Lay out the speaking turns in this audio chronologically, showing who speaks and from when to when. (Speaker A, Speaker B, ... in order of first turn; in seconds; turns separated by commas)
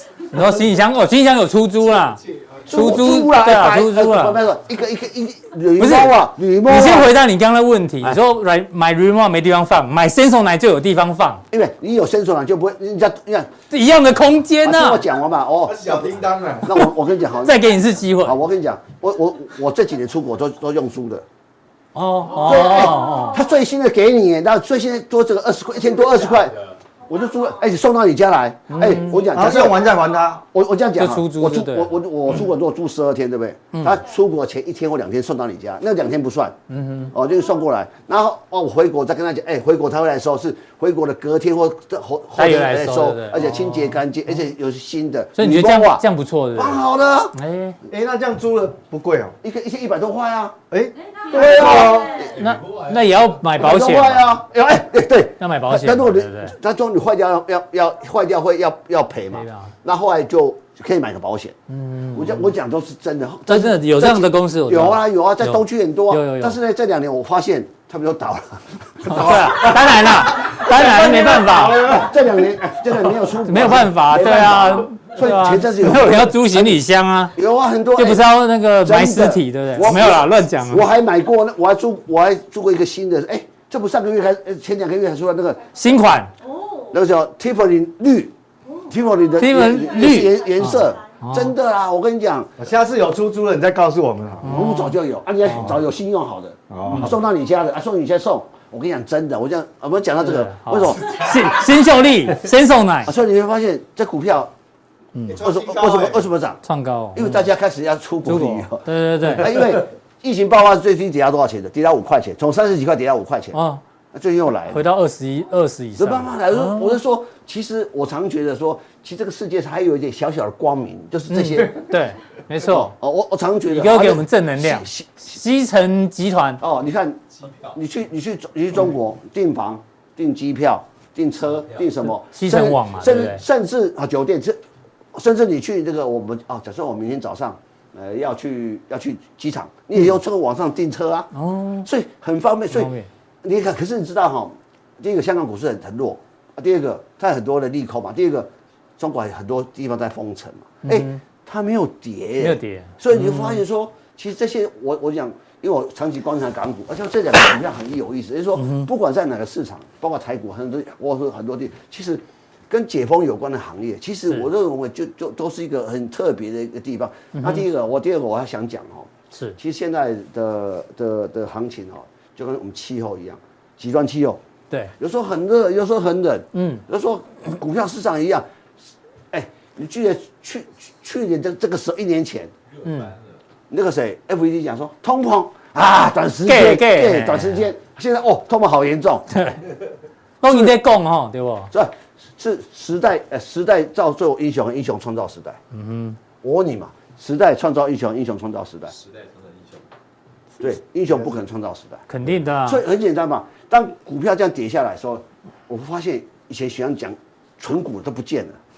Speaker A: 0.3-4.4, Speaker B: 2.7-7.1, Speaker A: 5.8-11.4, Speaker B: 11.5-13.5, Speaker A: 13.7-15.0, Speaker B: 14.6-16.1, Speaker C: 15.8-16.7, Speaker D: 15.9-16.6, Speaker B: 16.6-17.6, Speaker A: 17.4-18.4, Speaker B: 18.2-21.2, Speaker A: 21.9-23.4, Speaker B: 22.3-26.6, Speaker E: 22.8-23.5, Speaker B: 27.1-29.8, Speaker A: 28.7-29.2, Speaker C: 29.3-30.4, Speaker B: 30.4-36.5, Speaker A: 31.0-32.4, Speaker A: 33.7-34.0, Speaker A: 36.7-37.1, Speaker B: 37.1-46.0, Speaker A: 42.4-44.0, Speaker A: 45.4-47.8, Speaker B: 46.5-47.3, Speaker C: 47.9-49.3, Speaker B: 49.4-50.6, Speaker C: 50.7-52.2, Speaker E: 51.0-52.4, Speaker B: 51.3-52.4, Speaker A: 52.2-54.4, Speaker D: 52.4-53.4, Speaker B: 53.6-61.5, Speaker A: 55.4-56.5, Speaker A: 59.3-59.7, Speaker A: 61.7-62.5, Speaker B: 62.1-76.8, Speaker A: 63.5-66.6, Speaker A: 69.0-72.1, Speaker C: 69.2-69.9, Speaker C: 70.7-72.0, Speaker A: 73.4-77.3, Speaker B: 77.3-78.2, Speaker A: 78.0-80.8, Speaker B: 78.8-85.6, Speaker A: 85.7-86.3, Speaker E: 86.4-87.0, Speaker B: 86.9-88.3, Speaker E: 88.7-91.0, Speaker B: 88.9-92.5, Speaker A: 89.4-91.5, Speaker C: 92.6-94.6, Speaker A: 94.4-95.8, Speaker B: 94.4-101.4, Speaker C: 96.7-97.2, Speaker A: 96.8-97.1, Speaker A: 100.2-103.1, Speaker B: 103.0-104.5, Speaker A: 105.1-105.4, Speaker D: 105.3-106.0, Speaker B: 105.4-106.6, Speaker C: 105.4-106.2, Speaker A: 106.6-107.5, Speaker B: 107.1-113.6, Speaker A: 108.2-109.6, Speaker A: 113.5-113.8, Speaker B: 114.1-114.8, Speaker A: 114.7-117.0, Speaker B: 116.0-121.9, Speaker A: 121.3-122.9, Speaker B: 122.6-125.1, Speaker A: 123.7-126.6, Speaker B: 126.6-134.6, Speaker D: 127.4-127.7, Speaker A: 132.3-133.4, Speaker B: 135.1-141.3, Speaker A: 141.3-141.9, Speaker B: 141.8-142.9, Speaker A: 142.7-143.1, Speaker B: 143.4-174.4, Speaker A: 150.8-151.2, Speaker A: 152.4-153.6, Speaker A: 158.6-158.9, Speaker A: 167.3-167.6, Speaker A: 169.3-169.6, Speaker B: 175.0-178.4, Speaker A: 176.5-176.8, Speaker B: 179.3-182.5, Speaker D: 182.7-183.3, Speaker A: 182.8-183.1, Speaker B: 183.7-189.3, Speaker A: 186.4-187.7, Speaker A: 189.3-189.6, Speaker A: 190.4-191.7, Speaker B: 191.7-195.6, Speaker A: 195.7-196.2, Speaker B: 196.4-198.9, Speaker D: 199.0-199.8, Speaker B: 200.6-202.0, Speaker A: 202.1-202.8, Speaker B: 202.6-208.6